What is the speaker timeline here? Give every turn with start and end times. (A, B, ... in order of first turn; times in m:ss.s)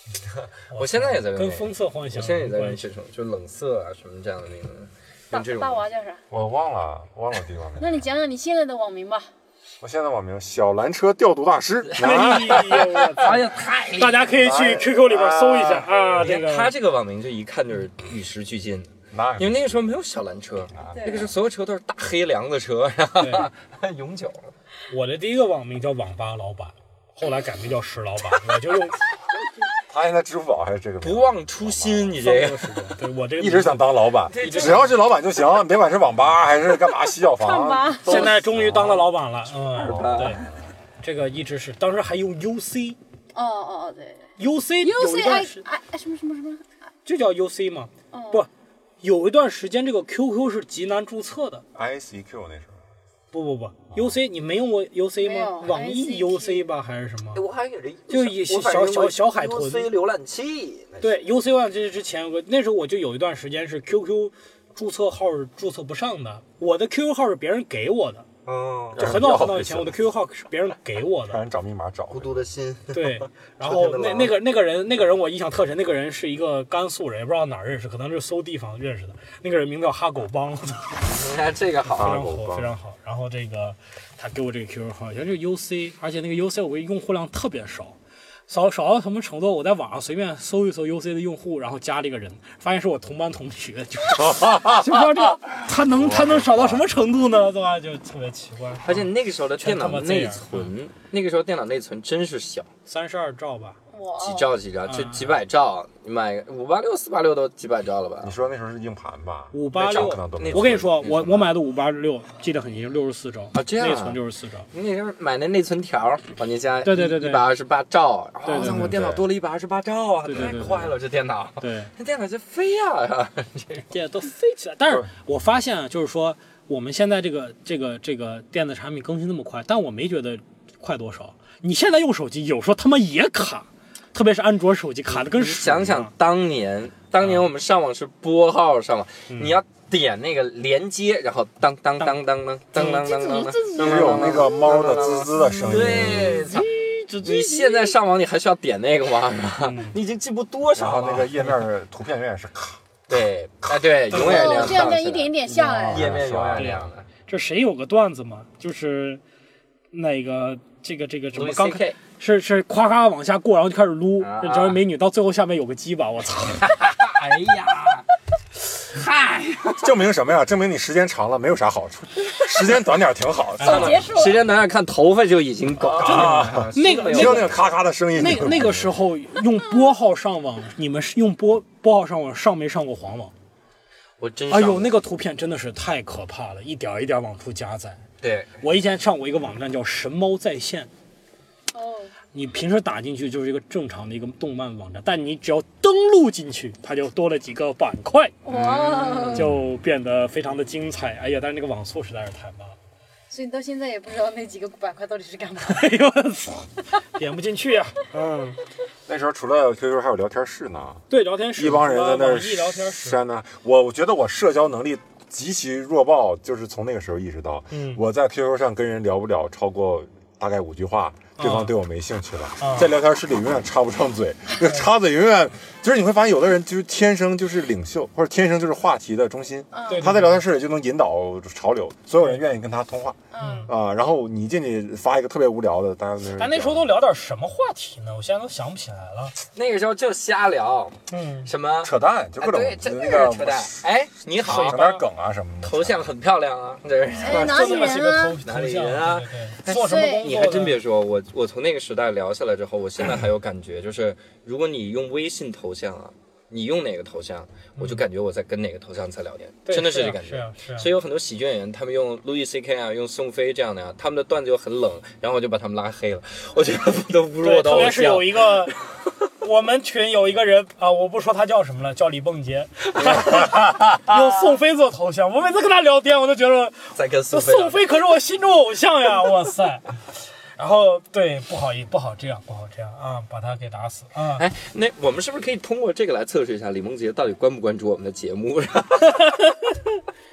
0:00.2-0:05.8 A
0:00.7-0:02.8 B
0:05.3-0:06.2 C
0:06.3-0:08.0 D
0:07.8-0:09.3 C
0:09.8-0:13.0 D
0:11.9-0:14.3 A
0:12.0-0:16.7 B
0:14.3-0:16.0 D
0:16.1-0:24.5 A
0:19.1-0:19.9 D
0:20.7-0:21.3 D
0:20.9-0:21.3 C
0:23.2-0:23.5 B
0:24.9-0:29.0 B
0:29.9-0:32.2 D
0:31.0-0:32.8 A
0:32.2-0:35.0 B
0:33.4-0:39.1 D
0:34.3-0:34.9 A
0:37.4-0:38.4 C
0:38.1-0:40.4 B
0:39.7-0:40.5 D
0:39.8-0:40.4 A
0:41.0-0:43.0 B
0:43.3-0:46.6 C
0:44.4-0:45.6 B
0:47.0-0:48.5 B
0:48.1-0:48.5 C
0:49.0-0:51.6 B
0:51.8-0:52.8 D
0:53.3-0:57.4 B
0:55.2-0:56.6 C
0:57.3-1:01.2 A
0:58.1-0:59.9 B
1:01.0-1:08.3 B
1:08.5-1:09.1 A
1:09.0-1:10.0 D
1:09.0-1:11.4 B
1:11.3-1:12.4 D
1:12.1-1:14.3 A
1:12.9-1:21.3 B
1:21.1-1:22.2 A
1:22.0-1:22.8 D
1:22.0-1:28.0 B
1:28.5-1:40.7 B
1:34.2-1:36.9 D
1:38.8-1:42.7 A
1:42.9-1:43.8 B
1:43.9-1:44.5 C
1:44.2-1:48.3 A
1:44.9-1:45.4 B
1:48.2-1:51.3 D
1:49.5-1:54.7 B
1:49.8-1:51.5 A
1:53.5-1:54.2 A
1:54.7-2:03.9 A
1:56.8-1:57.5 B
1:58.5-1:59.0 B
1:58.6-1:59.2 D
2:00.3-2:00.9 B
2:01.6-2:01.9 B
2:03.9-2:16.1 B
2:15.1-2:31.4 A
2:17.2-2:17.5 B
2:19.3-2:19.6 B
2:22.8-2:25.2 C
2:23.8-2:26.5 D
2:25.6-2:27.5 B
2:29.6-2:30.0 B
2:30.8-2:33.1 D
2:33.1-2:37.1 A
2:34.1-2:34.9 B
2:34.1-2:36.1 C
2:35.6-2:36.9 D
2:36.6-2:39.2 B
2:39.9-2:46.8 B
2:41.3-2:42.0 A
2:44.2-2:44.8 A
2:46.6-2:48.1 A
2:48.9-2:49.9 A
2:49.8-2:54.0 D
2:53.6-2:53.9 B
2:53.6-2:54.4 C
2:53.6-2:57.7 A
2:55.9-2:57.6 B
2:55.9-2:59.0 D
2:58.2-3:03.3 B
3:04.2-3:04.9 A
3:04.5-3:08.0 B
3:08.2-3:08.6 A
3:08.6-3:10.9 B
3:11.7-3:12.2 C
3:12.3-3:18.4 B
3:18.4-3:19.5 C
3:18.5-3:19.4 A
3:19.3-3:22.8 B
3:19.4-3:19.6 D
3:23.3-3:26.0 C
3:25.6-3:28.6 B
3:29.1-3:31.0 D
3:31.1-3:33.2 B
3:31.6-3:56.9 D
3:37.7-3:38.0 B
3:41.4-3:41.7 B
3:42.6-3:42.9 B
3:44.6-3:44.9 B
3:49.7-3:50.1 C
3:49.9-3:50.4 B
3:53.3-3:53.7 C
3:53.4-3:53.7 B
3:56.3-3:59.4 B
3:59.6-4:04.8 A
4:01.1-4:01.5 B
4:01.8-4:03.8 D
4:04.4-4:05.0 B
4:04.4-4:06.1 D
4:05.6-4:28.5 A
4:07.2-4:08.4 C
4:07.2-4:10.8 B
4:09.7-4:10.3 C
4:17.8-4:18.0 B
4:19.7-4:20.9 B
4:27.4-4:40.0 B
4:36.9-4:37.8 A
4:40.6-4:44.4 B
4:44.4-4:49.2 A
4:49.2-4:49.9 B